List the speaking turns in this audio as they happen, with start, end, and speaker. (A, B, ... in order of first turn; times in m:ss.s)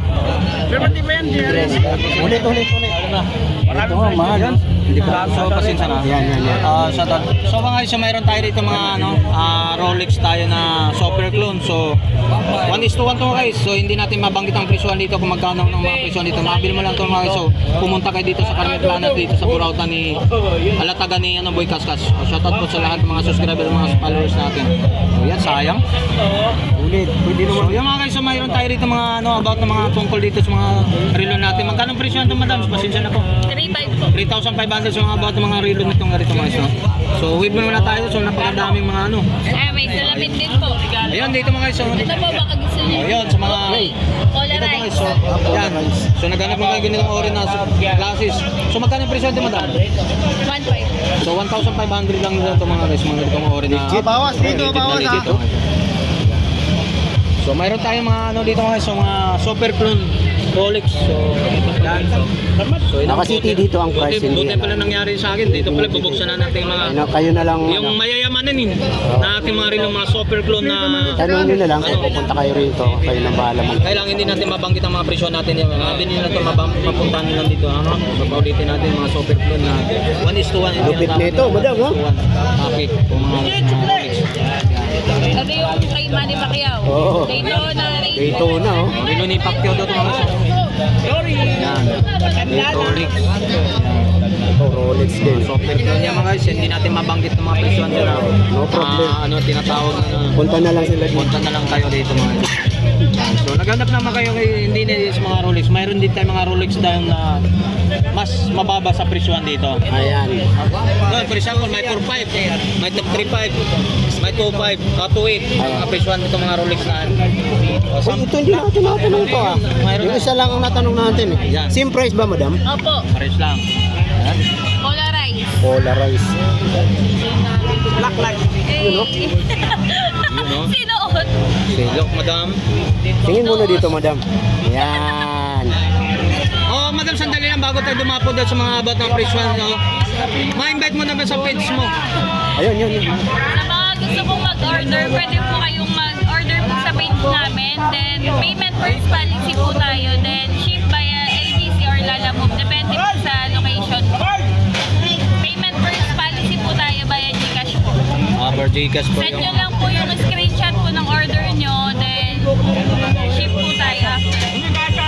0:00.6-0:02.1 A
0:01.3-0:03.0 B
0:01.4-0:12.0 C
0:03.7-0:04.5 A
0:03.7-0:06.9 B
0:05.3-0:05.8 A
0:12.6-0:25.8 C
0:26.8-0:27.8 B
0:27.4-0:33.3 C
0:33.4-0:34.1 D
0:34.1-0:40.4 C
0:39.4-0:41.1 D
0:41.0-0:42.2 C
0:41.9-0:45.1 D
0:42.8-0:43.9 C
0:44.5-0:49.8 C
0:45.3-0:46.0 B
0:50.4-0:51.0 D
0:51.2-0:55.6 C
0:53.7-0:55.4 B
0:57.4-1:02.3 C
1:02.6-1:02.8 A
1:02.8-1:07.0 C
1:03.0-1:04.9 B
1:05.5-1:08.0 B
1:07.6-1:12.2 C
1:09.0-1:09.4 B
1:11.0-1:11.7 A
1:11.1-1:14.4 B
1:13.8-1:25.0 C
1:20.8-1:22.0 B
1:25.3-1:29.1 D
1:26.8-1:27.6 B
1:27.4-1:27.7 C
1:28.1-1:28.9 B
1:28.8-1:30.5 C
1:29.9-1:30.5 D
1:31.0-1:31.5 A
1:31.5-1:34.2 C
1:32.0-1:32.6 D
1:32.4-1:33.1 A
1:34.6-1:35.5 B
1:35.2-1:40.4 C
1:38.0-1:39.2 B
1:40.4-1:41.4 B
1:41.1-1:47.4 C
1:48.1-1:49.8 C
1:49.9-1:50.5 B
1:51.0-1:57.2 C
1:55.6-1:55.9 B
1:57.9-2:00.4 C
1:58.0-2:02.6 B
2:01.4-2:01.8 C
2:02.6-2:03.0 D
2:03.1-2:04.4 C
2:04.8-2:05.5 D
2:05.6-2:06.4 B
2:07.9-2:08.5 A
2:08.6-2:11.3 D
2:08.8-2:09.1 B
2:10.2-2:10.8 C
2:11.7-2:12.6 C
2:13.2-2:15.8 B
2:13.2-2:13.9 D
2:14.7-2:15.1 D
2:16.6-2:21.9 C
2:22.5-2:23.3 B
2:23.4-2:34.5 D
2:35.0-2:38.0 D
2:38.3-2:39.7 C
2:39.1-2:44.7 D